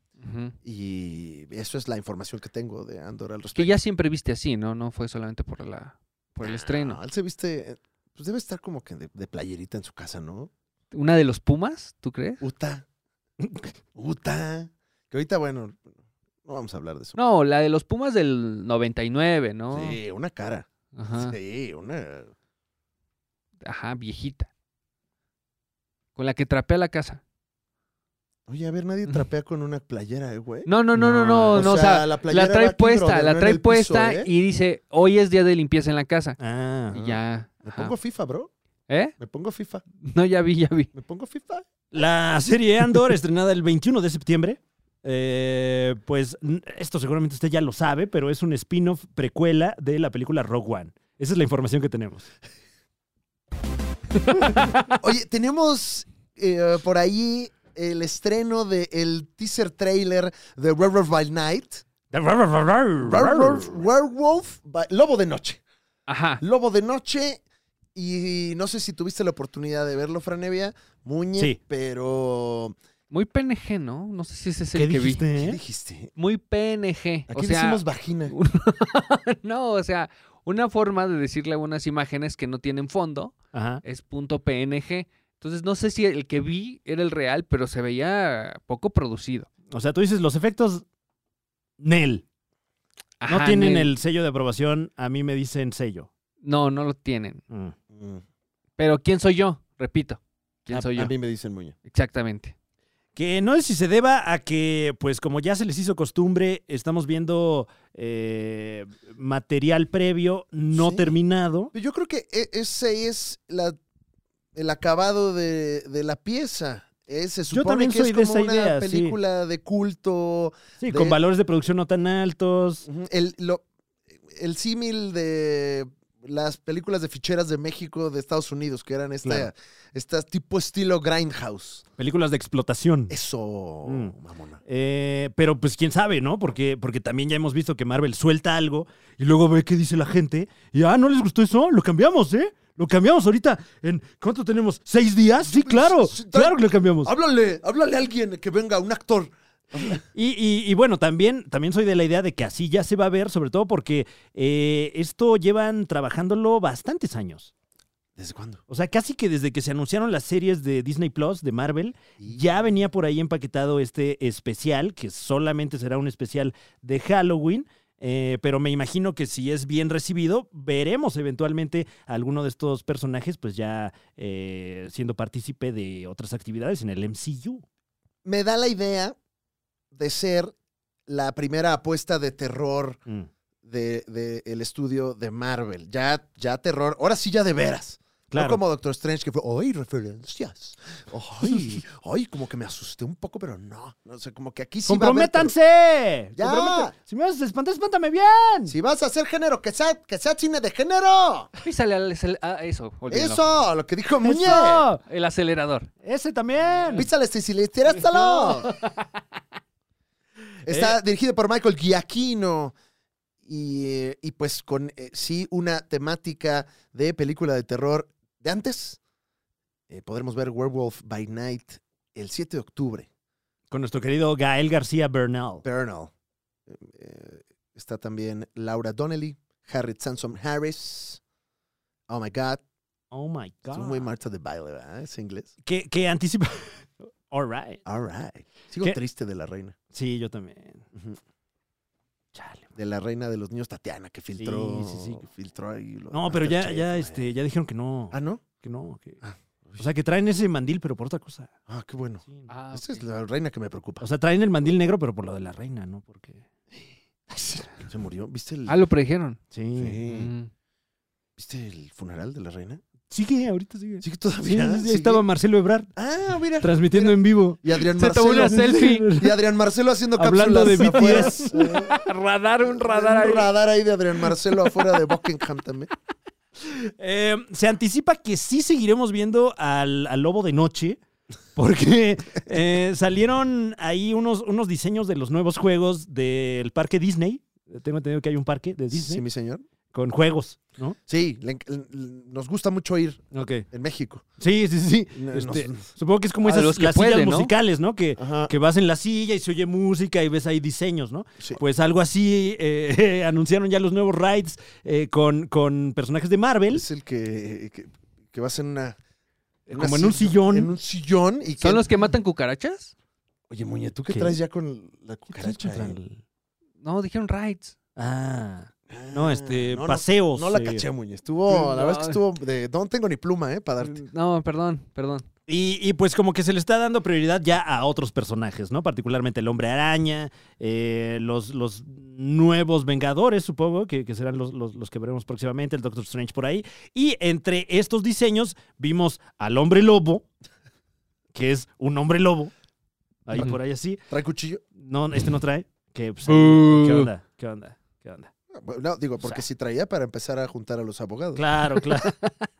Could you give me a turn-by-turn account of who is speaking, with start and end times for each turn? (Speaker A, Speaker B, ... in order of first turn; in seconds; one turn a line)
Speaker A: 0.2-0.6
Speaker B: 0.6-3.7
Speaker A: 3.6-7.0
Speaker B: 6.4-10.5
Speaker A: 10.9-12.4
Speaker B: 12.4-12.8
Speaker C: 13.4-13.7
Speaker B: 13.9-15.9
Speaker B: 16.4-17.2
Speaker A: 17.2-20.0
Speaker B: 19.7-22.3
Speaker A: 20.9-21.4
Speaker A: 23.6-24.5
Speaker A: 26.2-27.2
Speaker B: 28.5-30.7
Speaker A: 30.7-36.4
Speaker C: 30.9-31.8
Speaker B: 31.5-34.3
Speaker C: 36.4-37.0
Speaker A: 36.9-38.0
Speaker B: 36.9-38.5
Speaker A: 38.9-39.1
Speaker B: 39.2-39.8
Speaker A: 40.0-40.9
Speaker B: 40.9-41.7
Speaker C: 41.9-52.3
Speaker A: 54.3-54.9
Speaker B: 54.9-61.8
Speaker C: 62.1-63.8
Speaker B: 63.0-65.6
Speaker A: 66.1-66.4
Speaker B: 66.4-67.4
Speaker B: 68.0-72.7
Speaker A: 73.1-75.2
Speaker C: 74.7-75.6
Speaker B: 75.4-76.1
Speaker A: 76.1-89.5
Speaker B: 77.3-78.3
Speaker C: 83.5-83.8
Speaker C: 89.7-90.8
Speaker C: 91.8-92.2
Speaker A: 93.2-93.9
Speaker C: 93.3-96.1
Speaker A: 96.4-97.4
Speaker C: 97.5-97.7
Speaker B: 97.9-98.2
Speaker A: 98.8-101.1
Speaker B: 100.7-101.7
Speaker A: 101.8-102.5
Speaker C: 103.1-111.7
Speaker B: 110.7-111.1
Speaker B: 111.7-113.8
Speaker B: 114.5-121.2
Speaker C: 117.5-119.2
Speaker C: 120.8-122.9
Speaker B: 122.8-123.6
Speaker B: 124.2-131.9
Speaker C: 129.2-129.5
Speaker C: 132.0-133.1
Speaker B: 133.1-134.6
Speaker C: 133.8-134.1
Speaker C: 134.6-147.1
Speaker B: 145.4-150.0
Speaker C: 150.1-157.5
Speaker B: 158.2-158.6
Speaker C: 158.7-177.6
Speaker B: 178.2-179.2
Speaker B: 179.9-180.6
Speaker B: 181.1-183.0
Speaker B: 183.6-195.5
Speaker C: 188.3-188.6
Speaker C: 194.9-198.7
Speaker B: 196.4-196.9
Speaker B: 198.7-201.5
Speaker A: 201.6-203.4
Speaker B: 203.1-204.9
Speaker C: 204.2-205.0
Speaker A: 204.4-205.9
Speaker C: 206.0-207.1
Speaker B: 206.9-208.7
Speaker C: 208.0-208.7
Speaker B: 210.7-212.7
Speaker C: 210.7-211.0
Speaker B: 213.4-219.0
Speaker B: 219.9-223.1
Speaker C: 223.7-225.6
Speaker B: 225.6-226.1
Speaker B: 226.7-231.2
Speaker B: 232.1-232.6
Speaker C: 233.1-234.1
Speaker B: 233.7-235.5
Speaker C: 235.6-237.8
Speaker B: 237.8-239.8
Speaker C: 239.9-240.9
Speaker C: 242.3-242.7
Speaker B: 242.7-247.3
Speaker C: 244.4-245.2
Speaker C: 246.1-249.2
Speaker B: 248.1-248.4
Speaker B: 249.2-249.8
Speaker C: 249.8-251.5
Speaker B: 251.7-254.1
Speaker A: 252.5-253.0
Speaker C: 254.0-256.4
Speaker B: 257.3-258.8
Speaker A: 258.7-259.4
Speaker C: 259.5-260.0
Speaker B: 259.8-260.3
Speaker A: 260.1-260.5
Speaker B: 261.4-262.8
Speaker C: 263.1-265.9
Speaker B: 264.0-265.2
Speaker B: 265.9-272.0
Speaker C: 266.6-267.6
Speaker A: 267.9-269.1
Speaker C: 268.2-269.4
Speaker C: 270.2-271.8
Speaker A: 270.7-273.5
Speaker B: 272.8-275.9
Speaker C: 276.6-281.0
Speaker C: 281.6-289.2
Speaker B: 288.9-289.7
Speaker C: 289.9-291.0
Speaker B: 291.1-294.2
Speaker C: 293.3-293.7
Speaker C: 294.4-306.9
Speaker B: 295.2-295.9
Speaker A: 296.4-297.5
Speaker B: 298.2-298.5
Speaker B: 306.7-309.0
Speaker C: 309.7-310.7
Speaker B: 309.7-311.9
Speaker A: 311.6-312.9
Speaker B: 313.5-316.0
Speaker C: 314.1-314.4
Speaker C: 315.3-316.2
Speaker A: 316.8-317.7
Speaker C: 317.9-320.9
Speaker B: 318.9-324.0
Speaker A: 321.5-322.2
Speaker A: 323.8-325.3
Speaker C: 325.5-340.3
Speaker C: 341.3-342.5
Speaker C: 343.3-344.0
Speaker B: 344.1-344.6
Speaker C: 344.7-348.3
Speaker A: 346.3-347.1
Speaker B: 348.5-351.4
Speaker C: 351.4-352.2